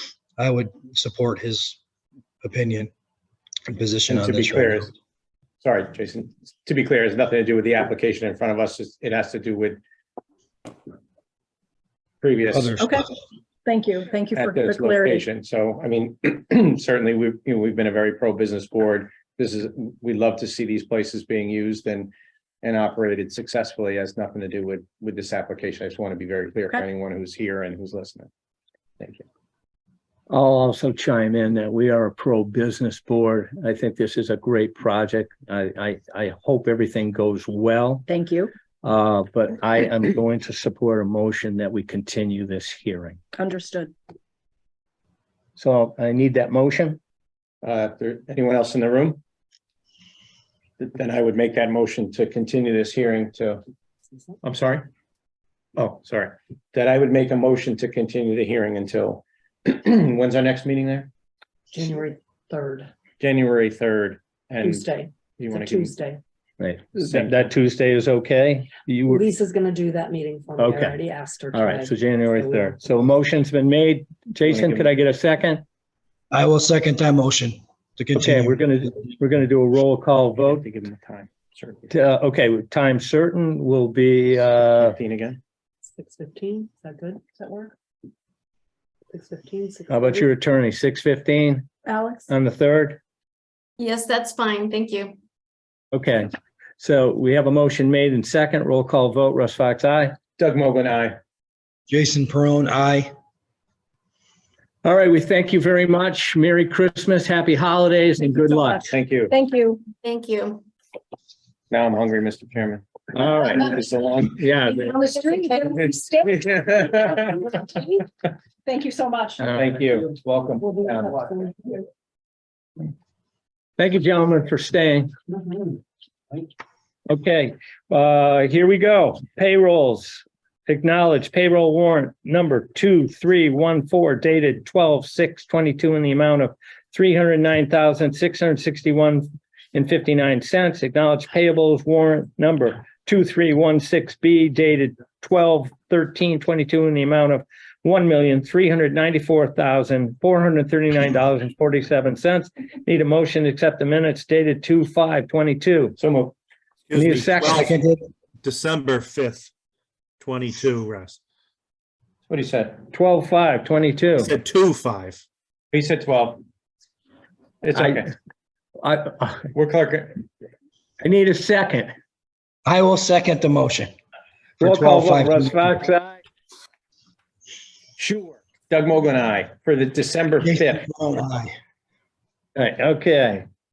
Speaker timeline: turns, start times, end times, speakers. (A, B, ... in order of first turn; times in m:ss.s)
0:00.4-0:01.8 A
0:02.4-0:02.9 A
0:03.7-0:04.9 A
0:04.1-0:04.9 B
0:05.6-0:09.8 B
0:12.2-0:12.8 B
0:12.5-0:13.0 A
0:12.8-0:13.1 C
0:13.7-0:15.2 C
0:14.4-0:28.3 B
0:29.0-0:29.2 B
0:30.3-0:38.1 D
0:38.1-0:38.5 C
0:38.8-0:43.2 D
0:43.3-0:43.9 C
0:45.6-0:47.0 D
0:47.6-0:49.2 B
0:50.8-0:53.6 B
0:54.4-0:54.9 B
0:55.8-1:01.1 B
1:01.7-1:02.9 E
1:03.2-1:05.9 B
1:04.6-1:06.2 E
1:06.6-1:09.3 D
1:07.0-1:07.4 B
1:09.1-1:12.8 E
1:10.6-1:11.0 D
1:11.5-1:15.6 D
1:14.5-1:14.9 B
1:16.3-1:18.7 A
1:18.2-1:20.6 D
1:20.4-1:21.9 B
1:21.9-1:25.0 D
1:24.6-1:25.4 B
1:26.0-1:27.2 E
1:27.3-1:27.7 C
1:29.1-1:30.2 E
1:29.9-1:31.7 D
1:31.9-1:32.3 C
1:32.3-1:33.0 D
1:33.8-1:35.2 F
1:35.9-1:40.2 D
1:40.4-1:41.2 B
1:41.9-1:43.1 A
1:44.8-1:48.9 D
1:48.7-1:49.8 C
1:48.9-1:49.3 B
1:49.9-1:50.6 F
1:51.7-1:54.4 B
1:53.2-1:53.6 D
1:54.4-1:55.0 D
1:54.7-1:56.4 C
1:55.0-1:55.6 F
1:55.6-1:57.6 B
1:56.9-1:58.0 C
1:58.7-1:59.4 C
1:59.4-1:59.8 D
1:59.5-2:01.4 B
2:01.4-2:01.8 C
2:03.8-2:05.1 D
2:07.1-2:36.0 D
2:36.0-2:36.3 B
2:36.9-2:37.8 G
2:37.0-2:37.7 D
2:37.5-2:38.0 A
2:38.4-2:39.5 G
2:40.2-2:41.2 G
2:42.3-2:42.8 B
2:42.9-2:44.3 D
2:44.2-2:45.2 G
2:45.7-2:46.4 B
2:47.6-2:48.1 B
2:47.7-2:48.0 D
2:48.8-2:49.5 D
2:49.5-2:50.2 B
2:51.0-2:51.9 D
2:52.6-2:53.9 A
2:54.6-2:55.7 A
2:54.6-2:56.2 D
2:58.0-3:00.9 B
3:00.4-3:01.5 A
3:02.6-3:03.4 D